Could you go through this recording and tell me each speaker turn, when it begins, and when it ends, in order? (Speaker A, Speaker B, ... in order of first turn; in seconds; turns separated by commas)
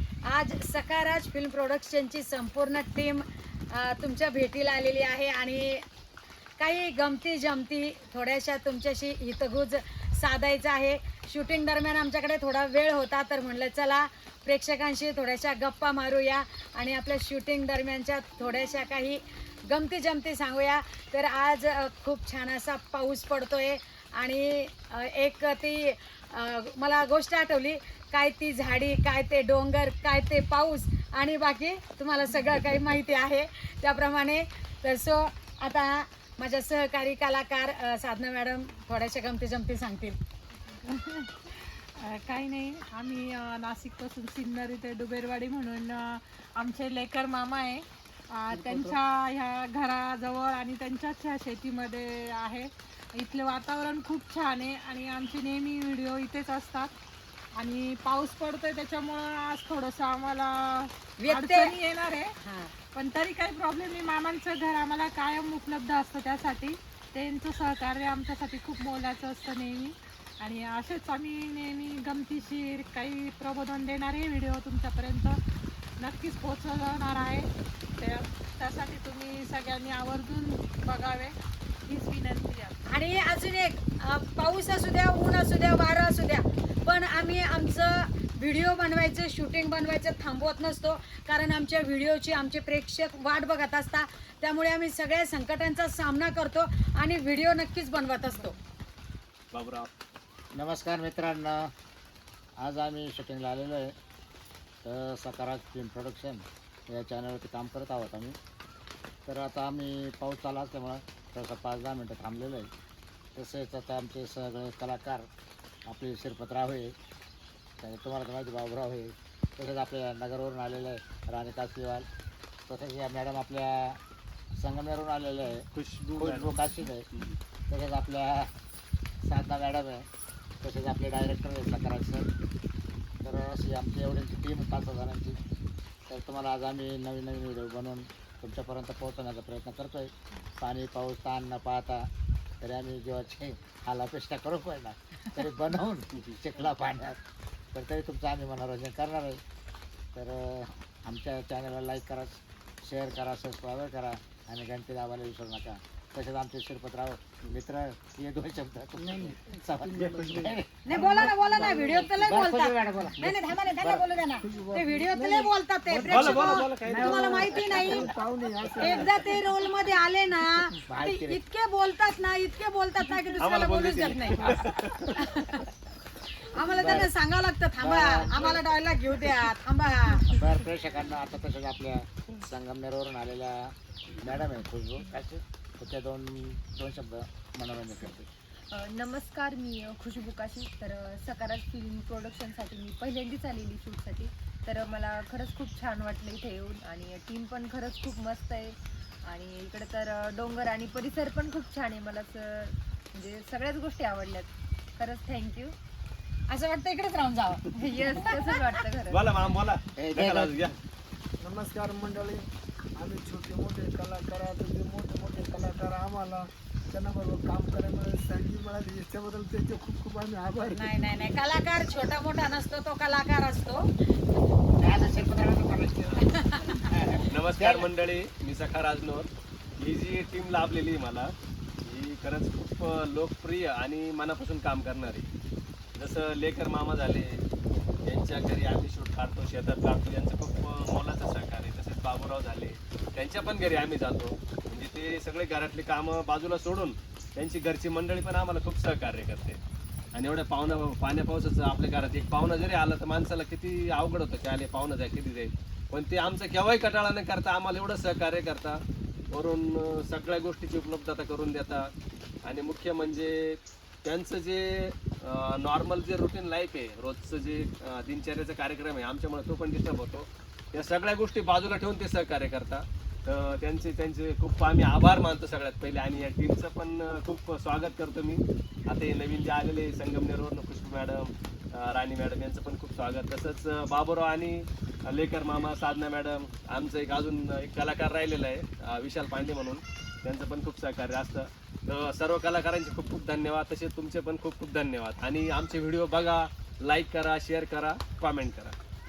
Speaker A: 0.2-5.8, Speaker A: 6.6-40.2, Speaker B: 40.8-56.9, Speaker C: 48.5-48.9, Speaker B: 57.5-75.4, Speaker A: 61.2-61.7, Speaker A: 62.4-62.7, Speaker B: 76.0-82.8, Speaker A: 82.9-98.5, Speaker D: 99.5-99.9, Speaker C: 100.5-101.7, Speaker C: 102.6-103.9, Speaker C: 104.8-108.3, Speaker C: 109.2-112.7, Speaker C: 113.3-115.3, Speaker C: 115.8-116.9, Speaker C: 117.8-122.0, Speaker C: 122.7-124.0, Speaker C: 124.6-127.1, Speaker D: 125.7-127.3, Speaker C: 127.7-128.5, Speaker C: 129.2-130.1, Speaker C: 130.6-132.3, Speaker C: 133.2-135.4, Speaker C: 136.1-142.1, Speaker C: 142.6-147.2, Speaker C: 147.7-149.4, Speaker C: 150.1-164.1, Speaker E: 159.0-161.9, Speaker A: 160.8-168.1, Speaker E: 164.4-165.5, Speaker D: 165.9-167.5, Speaker C: 166.1-168.1, Speaker E: 166.2-169.3, Speaker A: 168.8-174.6, Speaker C: 170.9-171.4, Speaker D: 173.4-175.2, Speaker A: 175.2-175.7, Speaker A: 176.4-180.3, Speaker C: 176.7-177.1, Speaker C: 177.8-178.6, Speaker C: 180.2-188.3, Speaker F: 188.7-205.7, Speaker A: 206.5-208.4, Speaker F: 207.7-209.3, Speaker D: 209.1-210.8, Speaker C: 209.9-210.7, Speaker E: 211.4-221.1, Speaker A: 220.7-223.9, Speaker C: 224.8-227.9, Speaker A: 226.2-226.8, Speaker D: 227.2-235.3, Speaker D: 235.9-237.4, Speaker D: 238.1-249.6, Speaker D: 250.1-261.9, Speaker D: 262.4-298.8